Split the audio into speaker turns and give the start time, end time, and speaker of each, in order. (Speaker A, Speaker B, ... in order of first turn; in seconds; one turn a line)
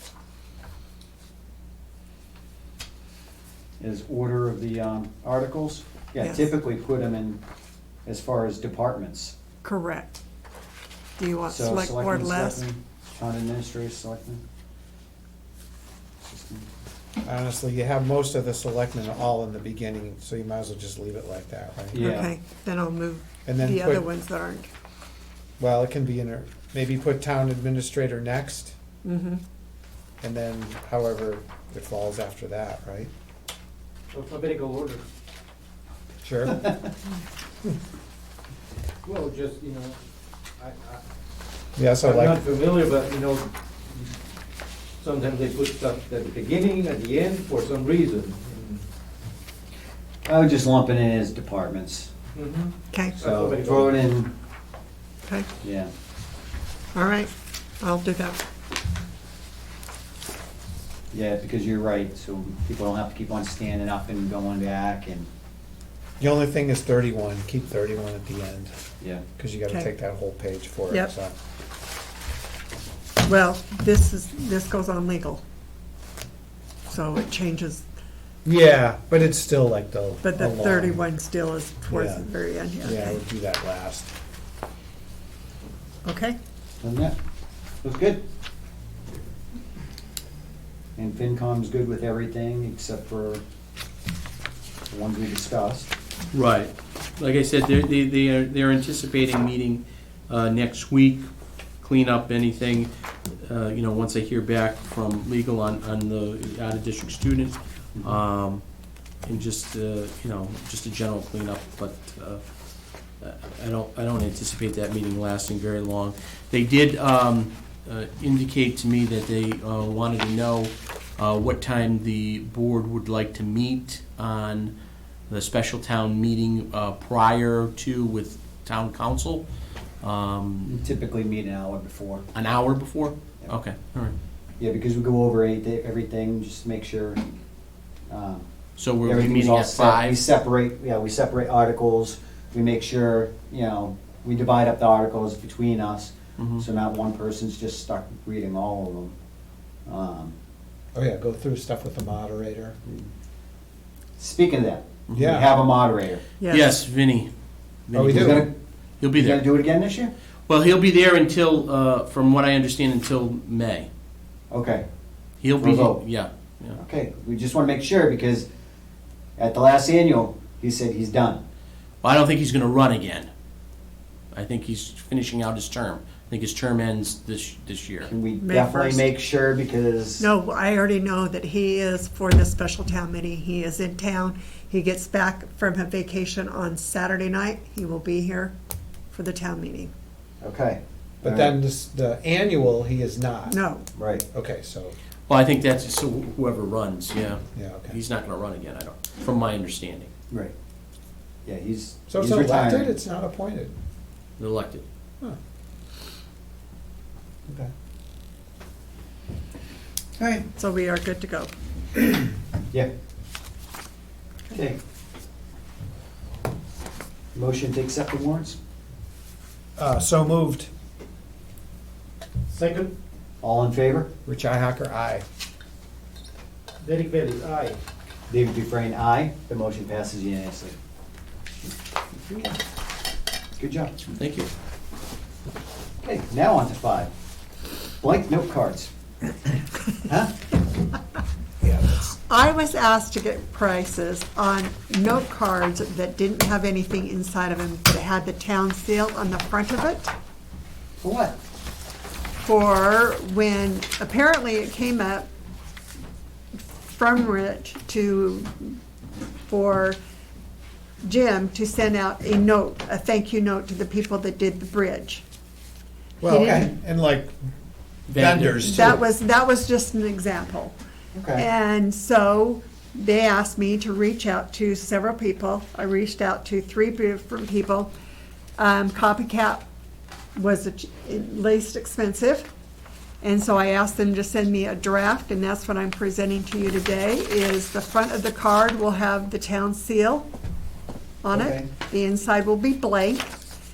Speaker A: 3.8-7.4
Speaker B: 6.2-6.5
Speaker A: 8.1-9.3
Speaker B: 9.6-10.2
Speaker B: 11.2-12.6
Speaker A: 11.5-14.4
Speaker A: 16.2-16.7
Speaker C: 17.2-22.2
Speaker A: 21.9-22.3
Speaker B: 22.0-24.7
Speaker C: 23.4-24.1
Speaker C: 25.6-28.8
Speaker B: 29.0-29.4
Speaker C: 30.2-33.1
Speaker D: 34.1-35.0
Speaker C: 36.2-36.6
Speaker A: 36.5-36.9
Speaker D: 39.0-40.0
Speaker D: 40.6-41.0
Speaker C: 41.8-42.5
Speaker D: 42.0-44.1
Speaker D: 45.0-48.8
Speaker A: 50.2-52.1
Speaker D: 52.3-54.1
Speaker B: 52.9-53.1
Speaker A: 53.2-54.3
Speaker A: 55.6-55.9
Speaker B: 56.9-58.4
Speaker A: 61.1-65.3
Speaker C: 66.2-68.7
Speaker C: 69.3-71.3
Speaker B: 73.2-75.4
Speaker B: 76.9-77.8
Speaker C: 78.4-81.0
Speaker B: 80.2-83.2
Speaker C: 81.9-82.3
Speaker C: 82.8-84.1
Speaker B: 86.0-86.4
Speaker A: 86.8-87.1
Speaker A: 87.8-88.2
Speaker A: 91.0-93.4
Speaker A: 94.9-95.9
Speaker E: 96.3-101.2
Speaker E: 101.8-108.6
Speaker E: 109.2-112.4
Speaker E: 113.2-124.7
Speaker E: 125.3-129.4
Speaker E: 130.0-130.8
Speaker A: 130.7-132.2
Speaker E: 132.3-134.1
Speaker A: 134.6-137.2
Speaker A: 138.1-138.4
Speaker E: 138.8-140.2
Speaker A: 139.0-149.1
Speaker E: 146.4-146.6
Speaker A: 149.8-150.3
Speaker C: 150.9-152.8
Speaker A: 154.2-156.2
Speaker E: 155.1-155.4
Speaker C: 155.1-155.5
Speaker B: 156.4-156.8
Speaker E: 156.5-157.3
Speaker E: 157.9-159.5
Speaker C: 157.9-158.4
Speaker A: 158.1-158.5
Speaker A: 159.2-160.1
Speaker E: 160.5-163.9
Speaker A: 164.5-164.8
Speaker E: 165.4-166.8
Speaker A: 165.6-166.0
Speaker A: 166.8-168.4
Speaker A: 169.4-171.4
Speaker E: 172.0-173.3
Speaker E: 174.3-178.1
Speaker A: 178.0-180.2
Speaker B: 178.4-179.1
Speaker B: 180.2-188.5
Speaker B: 189.1-189.9
Speaker A: 190.4-191.6
Speaker C: 191.2-193.5
Speaker B: 193.5-193.8
Speaker A: 193.9-194.2
Speaker C: 194.3-194.9
Speaker E: 195.3-200.1
Speaker C: 197.5-198.0
Speaker A: 201.4-202.9
Speaker C: 202.1-203.7
Speaker E: 204.4-204.8
Speaker A: 210.2-210.4
Speaker B: 210.6-211.5
Speaker A: 214.5-214.8
Speaker A: 217.3-218.6
Speaker C: 219.8-220.7
Speaker D: 222.5-222.9
Speaker A: 223.4-224.1
Speaker C: 224.2-225.2
Speaker D: 226.8-227.8
Speaker A: 228.3-230.8
Speaker A: 232.2-232.5
Speaker A: 233.6-233.9
Speaker E: 234.1-234.5
Speaker A: 236.0-237.1
Speaker A: 238.0-238.9
Speaker A: 240.1-240.3
Speaker C: 241.6-242.1
Speaker B: 242.3-250.1
Speaker A: 251.0-251.4
Speaker B: 252.4-255.3
Speaker B: 256.8-258.8
Speaker B: 259.5-260.0
Speaker B: 261.0-265.2
Speaker C: 266.2-267.3
Speaker B: 266.2-266.7
Speaker A: 266.3-266.7
Speaker C: 268.1-269.0
Speaker E: 268.1-269.0
Speaker B: 268.6-270.7
Speaker A: 271.1-271.4
Speaker B: 271.3-277.9
Speaker B: 278.6-279.6
Speaker B: 280.4-282.5
Speaker B: 283.2-290.3
Speaker B: 291.2-293.3
Speaker A: 291.3-291.7